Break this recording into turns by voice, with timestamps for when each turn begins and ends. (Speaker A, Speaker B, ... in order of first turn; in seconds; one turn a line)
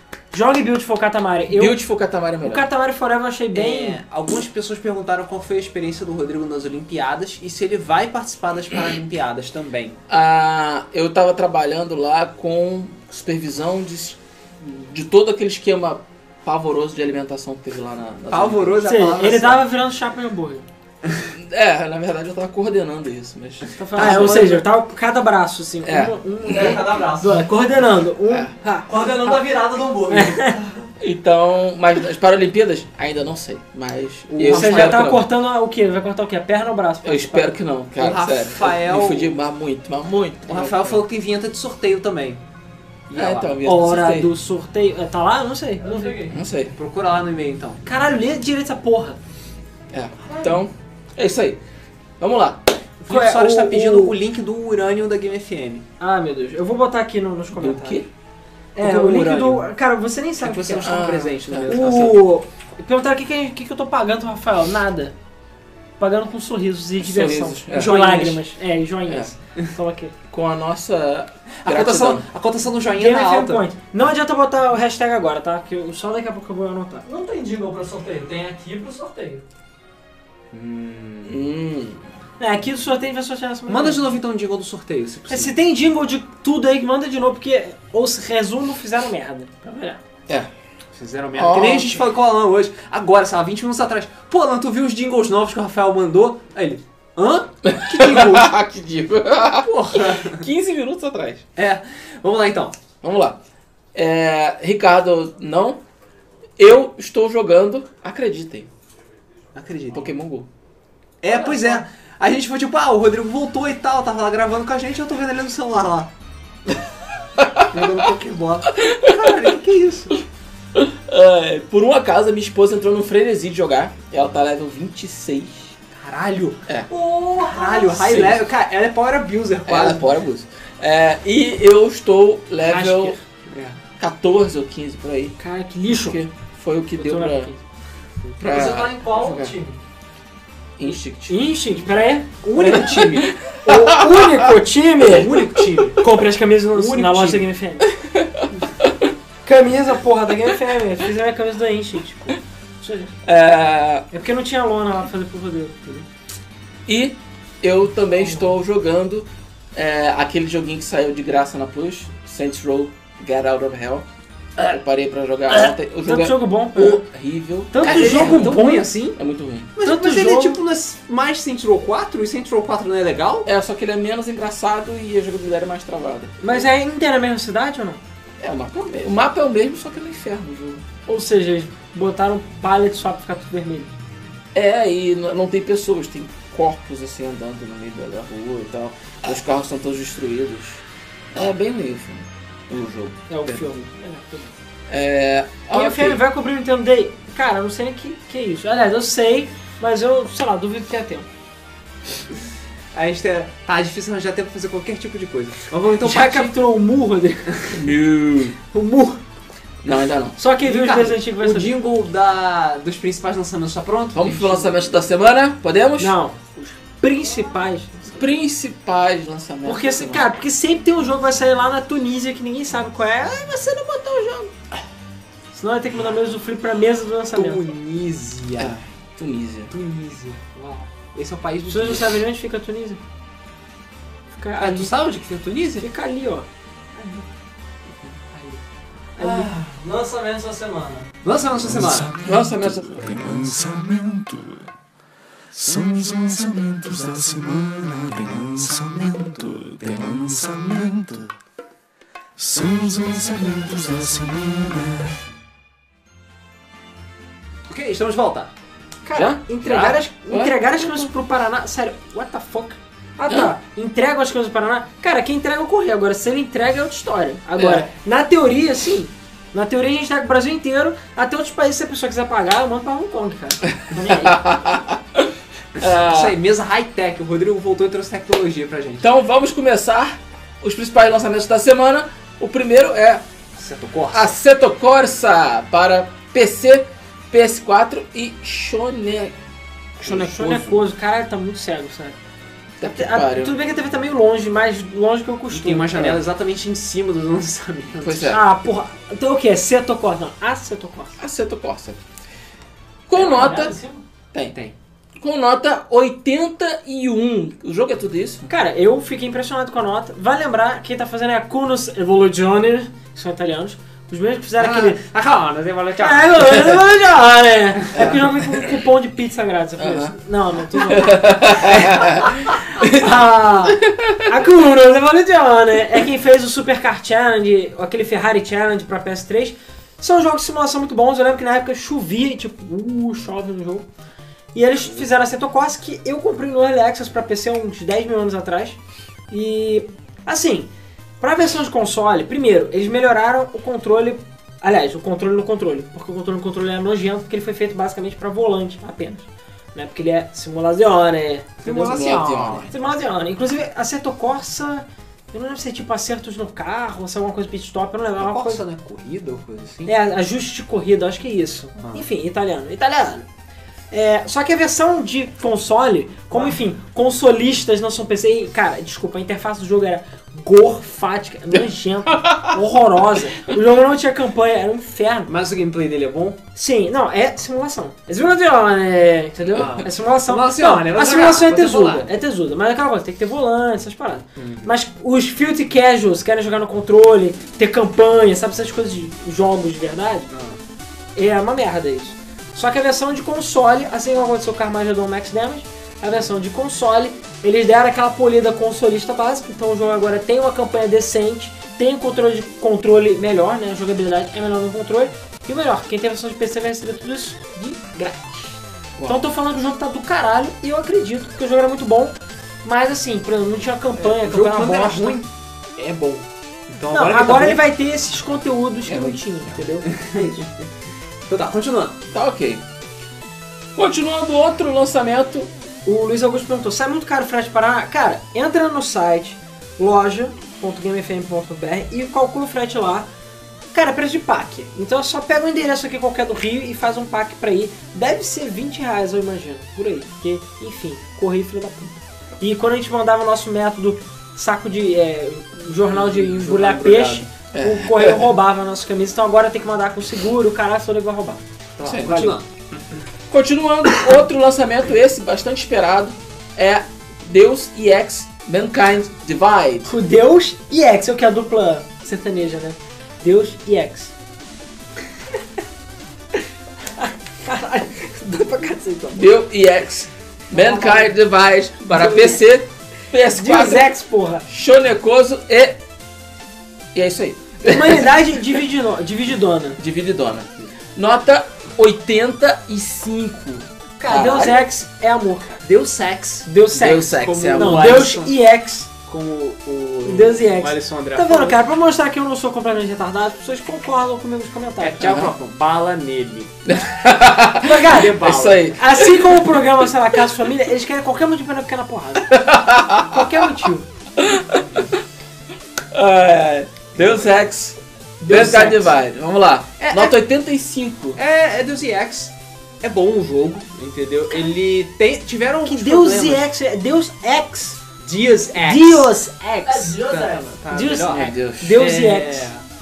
Speaker A: 0.3-1.8
Speaker B: 1.5-2.7
Speaker A: 2.4-4.0
Speaker C: 3.5-10.0
Speaker B: 10.1-18.9
Speaker C: 18.3-19.6
Speaker A: 18.8-20.7
Speaker B: 21.3-24.6
Speaker A: 23.7-29.3
Speaker C: 24.0-24.6
Speaker B: 25.8-26.8
Speaker D: 26.4-27.5
Speaker B: 28.3-28.6
Speaker D: 28.9-30.9
Speaker A: 30.1-30.6
Speaker B: 31.0-35.2
Speaker C: 34.3-35.1
Speaker A: 34.5-37.6
Speaker B: 37.0-41.0
Speaker C: 38.0-39.4
Speaker C: 40.5-42.4
Speaker C: 43.1-43.6
Speaker B: 43.1-44.3
Speaker A: 43.6-46.3
Speaker D: 45.8-46.4
Speaker B: 46.3-46.8
Speaker C: 46.8-47.8
Speaker A: 47.9-49.2
Speaker B: 49.9-51.6
Speaker B: 52.2-52.6
Speaker C: 53.0-55.8
Speaker A: 53.1-54.2
Speaker A: 56.0-58.1
Speaker B: 57.5-58.1
Speaker A: 58.8-61.1
Speaker B: 58.8-59.6
Speaker C: 60.4-62.2
Speaker B: 60.8-61.8
Speaker A: 61.7-65.2
Speaker A: 66.0-70.1
Speaker B: 67.0-67.9
Speaker C: 67.7-68.4
Speaker B: 70.3-72.2
Speaker C: 71.6-73.7
Speaker A: 72.9-77.1
Speaker D: 77.1-79.4
Speaker C: 80.5-81.4
Speaker B: 81.2-82.0
Speaker A: 82.4-84.0
Speaker C: 83.7-85.5
Speaker A: 85.3-90.0
Speaker C: 91.0-98.5
Speaker B: 91.4-92.0
Speaker B: 97.6-101.4
Speaker C: 99.6-100.5
Speaker C: 101.6-102.8
Speaker B: 103.0-103.4
Speaker B: 104.0-105.8
Speaker B: 106.6-108.7
Speaker C: 109.5-110.1
Speaker B: 109.9-110.5
Speaker C: 111.2-116.1
Speaker C: 117.7-120.2
Speaker B: 118.8-119.3
Speaker B: 120.7-125.7
Speaker C: 125.9-126.7
Speaker D: 126.9-127.9
Speaker C: 127.5-130.0
Speaker B: 127.9-128.5
Speaker B: 129.7-133.2
Speaker A: 132.7-133.1
Speaker C: 133.5-133.8
Speaker B: 134.0-135.4
Speaker A: 135.4-136.2
Speaker B: 135.9-137.5
Speaker A: 137.0-137.6
Speaker B: 138.4-139.6
Speaker D: 138.4-139.8
Speaker B: 140.8-141.5
Speaker A: 141.3-142.7
Speaker C: 142.4-143.3
Speaker B: 142.6-144.5
Speaker A: 143.6-147.9
Speaker C: 145.1-146.1
Speaker C: 146.7-147.5
Speaker B: 147.9-149.1
Speaker A: 149.4-153.1
Speaker B: 153.2-154.1
Speaker A: 154.1-156.1
Speaker B: 156.9-164.1
Speaker B: 164.6-168.7
Speaker A: 165.5-167.0
Speaker A: 167.7-168.9
Speaker C: 167.8-169.2
Speaker B: 169.2-169.7
Speaker C: 169.8-173.5
Speaker A: 169.8-170.6
Speaker B: 173.5-176.7
Speaker A: 176.4-178.0
Speaker B: 178.4-180.8
Speaker A: 181.1-183.9
Speaker B: 184.5-193.6
Speaker A: 193.3-194.5
Speaker B: 194.9-196.2
Speaker A: 195.7-201.3
Speaker C: 202.9-206.6
Speaker A: 206.0-207.7
Speaker B: 207.7-208.6
Speaker A: 208.7-209.2
Speaker B: 209.8-210.4
Speaker A: 210.4-211.7
Speaker C: 210.7-214.9
Speaker B: 214.1-216.2
Speaker A: 216.0-218.2
Speaker B: 218.1-220.3
Speaker A: 219.6-224.5
Speaker A: 225.5-227.6
Speaker C: 227.3-228.8
Speaker B: 228.6-229.7
Speaker C: 229.7-232.2
Speaker A: 231.7-233.0
Speaker A: 234.3-235.0
Speaker C: 234.6-235.9
Speaker A: 235.8-236.5
Speaker C: 237.0-237.2
Speaker C: 237.9-238.6
Speaker D: 239.2-241.1
Speaker B: 239.2-239.5
Speaker C: 241.2-242.1
Speaker E: 241.7-244.6
Speaker B: 242.2-243.6
Speaker E: 245.5-251.3
Speaker E: 252.4-255.1
Speaker C: 257.7-258.5
Speaker A: 259.0-274.4
Speaker B: 259.1-261.1
Speaker B: 267.6-267.9
Speaker B: 273.9-276.4
Speaker C: 275.9-279.1
Speaker B: 279.0-283.2
Speaker C: 283.6-284.3
Speaker B: 284.1-289.4
Speaker B: 290.0-290.9
Speaker A: 290.0-292.2
Speaker B: 292.8-293.5
Speaker A: 292.8-296.2
Speaker C: 295.5-298.4
Speaker B: 298.0-298.4
Speaker A: 298.3-301.2
Speaker B: 301.2-302.0
Speaker B: 303.1-303.8
Speaker A: 303.1-304.0
Speaker B: 305.2-308.5
Speaker A: 308.5-315.0
Speaker C: 314.6-316.6
Speaker A: 316.0-322.1
Speaker B: 317.9-318.6
Speaker B: 319.8-320.1
Speaker B: 320.7-323.1
Speaker A: 322.8-333.9
Speaker B: 323.8-324.2
Speaker A: 334.5-338.8
Speaker A: 339.3-340.7
Speaker A: 341.2-351.9
Speaker C: 351.6-352.7
Speaker B: 351.6-352.7
Speaker A: 352.7-358.6
Speaker C: 358.2-359.9
Speaker A: 359.9-363.2
Speaker C: 361.8-362.1
Speaker A: 363.9-375.3
Speaker C: 366.3-366.6
Speaker B: 372.1-372.5
Speaker C: 375.3-376.4
Speaker A: 376.6-390.3
Speaker B: 379.4-379.9
Speaker C: 379.6-382.1
Speaker C: 384.4-384.7
Speaker C: 390.3-390.6
Speaker A: 391.1-415.2
Speaker B: 409.0-409.2
Speaker C: 414.0-417.6
Speaker A: 416.9-420.5
Speaker B: 418.9-419.2
Speaker C: 419.9-420.5
Speaker C: 421.3-422.0
Speaker B: 422.1-422.6
Speaker B: 423.8-425.5
Speaker A: 425.9-433.1
Speaker A: 433.7-451.4
Speaker C: 445.9-447.3
Speaker B: 447.5-448.3
Speaker C: 451.8-452.5
Speaker B: 451.8-452.2
Speaker A: 452.1-452.4
Speaker B: 453.3-459.9
Speaker A: 459.9-464.1
Speaker A: 467.0-469.3
Speaker B: 469.1-473.9
Speaker A: 470.5-471.2
Speaker A: 471.9-472.4
Speaker A: 473.3-474.4
Speaker B: 474.5-475.8
Speaker B: 476.9-478.1
Speaker A: 477.6-479.8
Speaker B: 479.8-484.6
Speaker A: 484.0-485.5
Speaker C: 485.6-488.3
Speaker A: 486.4-488.9
Speaker B: 486.7-488.1
Speaker C: 489.1-491.6
Speaker A: 490.1-495.1
Speaker C: 494.8-496.5
Speaker B: 495.0-495.3
Speaker B: 496.6-499.3
Speaker A: 497.6-498.2
Speaker C: 497.8-498.7
Speaker A: 498.7-502.3
Speaker B: 502.3-503.2
Speaker A: 503.1-503.9
Speaker B: 504.2-504.9
Speaker B: 505.9-511.2
Speaker C: 507.0-507.4
Speaker A: 508.2-508.9
Speaker C: 508.3-508.9
Speaker C: 509.8-510.1
Speaker C: 511.1-516.5
Speaker A: 515.6-517.8
Speaker C: 518.0-519.1
Speaker A: 518.6-520.0
Speaker D: 519.6-520.6
Speaker C: 519.9-522.6
Speaker A: 520.7-522.5
Speaker B: 521.0-521.8